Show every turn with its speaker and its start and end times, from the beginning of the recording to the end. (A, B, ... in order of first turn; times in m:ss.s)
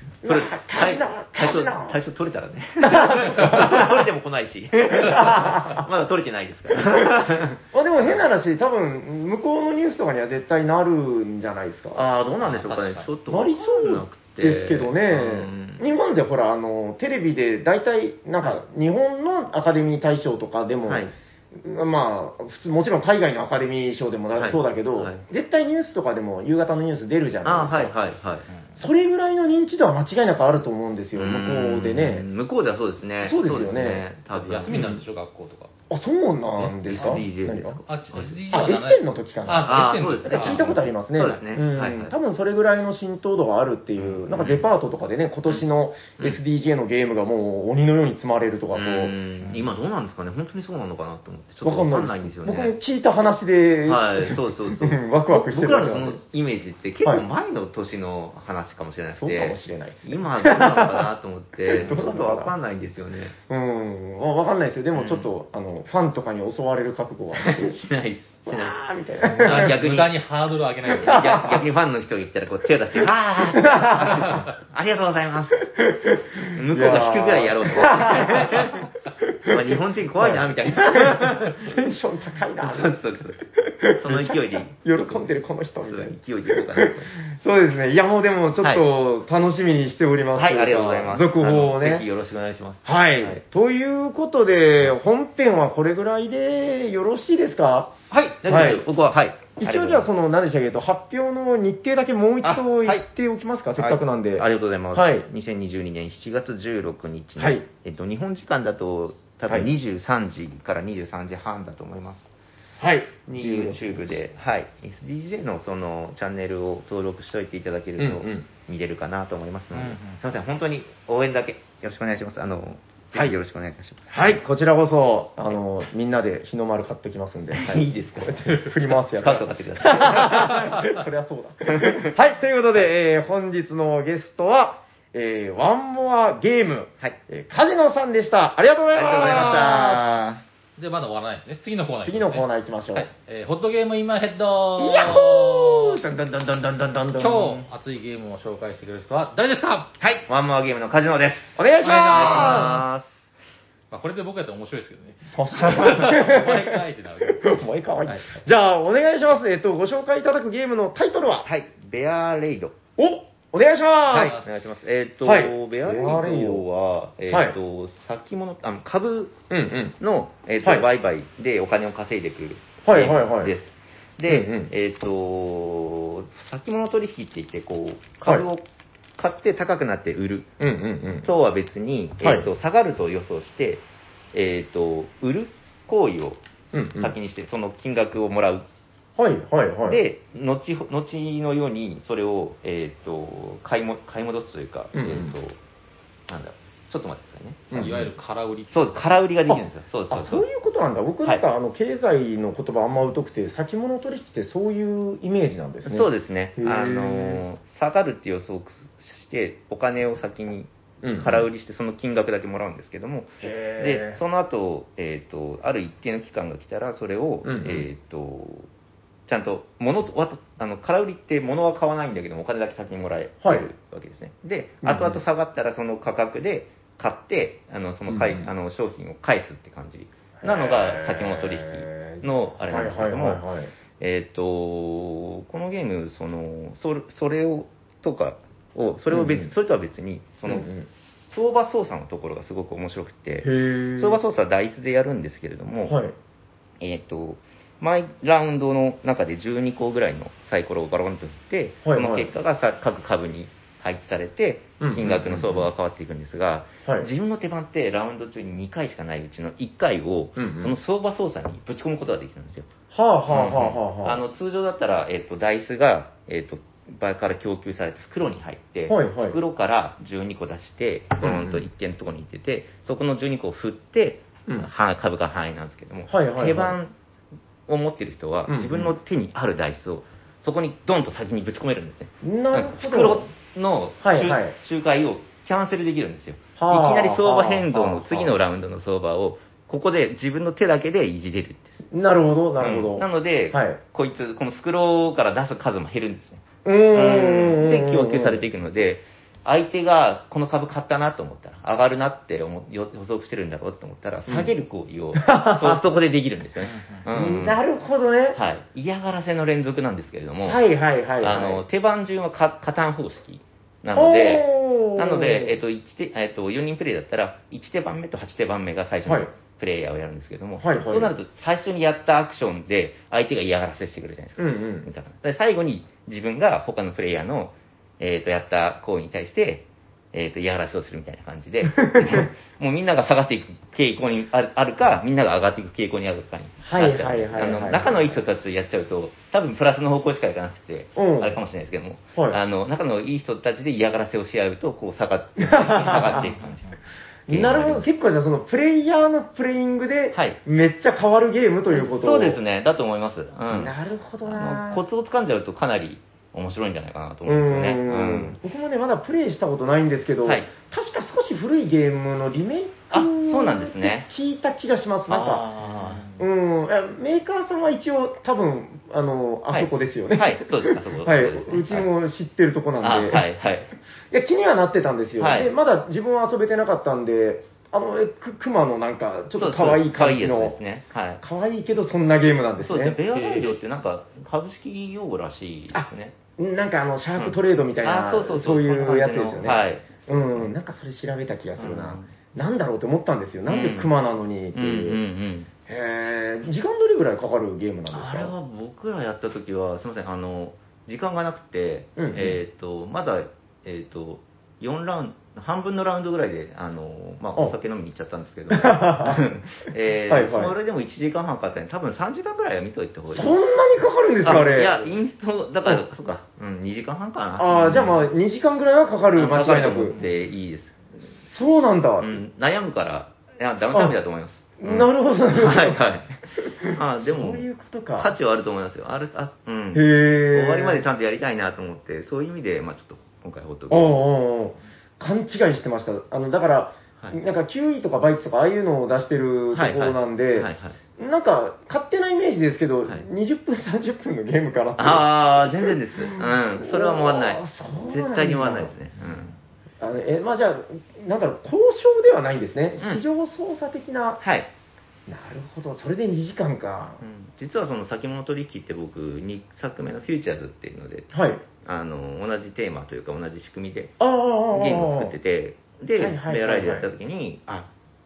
0:00.2-0:02.0 A
0:00.2-0:08.2 B
0:02.8-0:04.1 A
0:04.9-0:05.8 A
0:06.7-0:12.0 A
0:11.9-0:15.8 B
0:12.4-0:13.1 C
0:13.3-0:27.9 A
0:20.8-0:21.1 B
0:24.4-0:25.2 B
0:27.4-0:28.5 B
0:28.8-0:32.2 A
0:31.1-0:34.8 B
0:33.2-0:34.0 A
0:34.3-0:35.7 C
0:34.7-0:35.0 A
0:35.9-0:37.8 A
0:36.6-0:38.4 B
0:36.9-0:40.7 C
0:38.5-0:49.5 A
0:39.6-0:42.1 B
0:44.0-0:44.7 B
0:48.7-0:52.8 B
0:51.6-0:56.2 A
0:53.8-1:03.3 B
0:59.1-1:01.1 A
1:01.7-1:02.5 A
1:03.5-1:07.8 A
1:04.9-1:05.3 B
1:07.4-1:08.8 B
1:08.4-1:09.8 A
1:09.3-1:10.1 B
1:09.3-1:11.3 C
1:10.9-1:15.7 B
1:10.9-1:11.6 A
1:13.0-1:14.5 A
1:15.7-1:23.0 A
1:16.5-1:18.9 B
1:19.4-1:21.7 B
1:22.6-1:23.4 B
1:23.6-1:32.1 A
1:24.0-1:25.3 B
1:25.8-1:27.2 B
1:30.4-1:33.4 B
1:32.8-1:37.9 A
1:38.1-1:40.0 B
1:38.4-1:38.9 A
1:39.6-1:45.3 A
1:42.4-1:43.0 B
1:43.8-1:52.3 B
1:47.4-1:47.7 A
1:49.5-1:49.7 A
1:52.8-1:54.1 A
1:53.3-2:04.4 B
1:58.0-1:58.5 A
1:59.7-2:00.2 C
2:04.1-2:20.0 A
2:07.5-2:10.9 B
2:11.7-2:12.1 B
2:18.9-2:20.4 B
2:20.8-2:26.0 C
2:22.0-2:23.1 A
2:24.8-2:27.6 A
2:27.2-2:29.9 C
2:30.0-2:31.6 B
2:31.6-2:32.8 A
2:31.8-2:32.8 C
2:32.1-2:33.1 B
2:33.9-2:38.2 C
2:35.3-2:41.5 A
2:41.4-2:42.7 B
2:43.0-2:44.4 A
2:44.1-2:49.4 B
2:44.2-2:44.4 C
2:45.2-2:46.6 A
2:47.3-2:47.5 A
2:49.5-2:50.0 A
2:50.0-2:58.6 B
2:52.8-2:53.5 A
2:54.3-2:54.7 A
2:59.2-3:00.5 B
3:00.6-3:01.3 A
3:01.2-3:06.4 B
3:02.2-3:02.5 A
3:06.7-3:07.1 A
3:07.0-3:08.6 B
3:09.2-3:10.0 A
3:09.9-3:15.6 B
3:14.9-3:15.3 A
3:16.3-3:18.0 B
3:17.7-3:18.1 A
3:17.7-3:19.1 C
3:18.7-3:20.4 B
3:19.5-3:27.4 A
3:25.8-3:38.7 B
3:31.0-3:31.5 A
3:33.4-3:34.2 A
3:37.4-3:37.9 A
3:39.3-3:53.4 B
3:44.8-3:45.2 A
3:48.1-3:48.5 A
3:50.4-3:53.7 A
3:54.0-4:06.0 B
3:59.1-3:59.5 A
4:00.5-4:00.9 A
4:03.4-4:04.2 A
4:05.8-4:06.1 A
4:06.8-4:22.7 B
4:11.8-4:12.3 A
4:14.8-4:15.7 A
4:20.4-4:20.7 A
4:22.9-4:24.2 A
4:23.3-4:36.9 B
4:28.9-4:29.4 A
4:31.2-4:31.7 A
4:36.1-4:36.8 A
4:37.7-4:51.8 B
4:38.5-4:38.9 A
4:42.2-4:43.2 A
4:44.0-4:44.5 A
4:46.6-4:48.4 A
4:51.9-4:53.8 A
4:52.6-5:07.6 B
4:56.6-4:58.4 A
5:04.3-5:04.5 A
5:05.1-5:05.9 A
5:06.6-5:07.0 C
5:07.1-5:08.4 A
5:08.3-5:10.6 B
5:10.4-5:11.6 A
5:11.2-5:47.9 B
5:14.0-5:15.6 A
5:20.6-5:21.1 A
5:24.4-5:24.9 A
5:31.8-5:32.3 A
5:36.6-5:38.2 A
5:41.0-5:41.4 A
5:45.4-5:46.4 A
5:47.3-5:52.4 A
5:50.1-5:50.4 B
5:51.7-5:58.4 B
5:53.5-5:54.8 A
5:57.2-6:05.4 A
6:02.9-6:04.1 B
6:05.1-6:06.2 B
6:06.1-6:13.2 A
6:09.5-6:11.9 B
6:12.8-6:13.7 B
6:14.1-6:20.6 A
6:15.2-6:15.5 B
6:19.4-6:21.2 B
6:21.2-6:23.0 A
6:22.6-6:26.1 B
6:23.1-6:23.6 C
6:25.7-6:35.0 A
6:27.2-6:30.5 B
6:31.6-6:32.1 B
6:33.5-6:33.9 B
6:34.5-6:35.5 B
6:35.7-6:38.3 A
6:37.9-6:53.4 B
6:42.0-6:42.4 A
6:48.5-6:49.3 A
6:50.1-6:50.5 A
6:53.1-6:54.9 A
6:54.2-6:58.1 B
6:57.4-7:00.0 A
6:59.1-7:00.8 B
7:01.3-7:02.2 A
7:02.0-7:07.4 B
7:04.6-7:08.1 A
7:08.0-7:14.0 B
7:09.7-7:10.8 A
7:13.7-7:28.7 A
7:19.5-7:20.8 B
7:24.8-7:29.4 B
7:29.8-7:34.2 A
7:34.2-7:34.5 B
7:35.1-7:37.0 A
7:37.0-7:41.1 B
7:41.1-7:41.4 A
7:41.6-7:43.9 B
7:44.0-7:45.1 A
7:44.5-7:47.7 B
7:46.0-7:46.9 A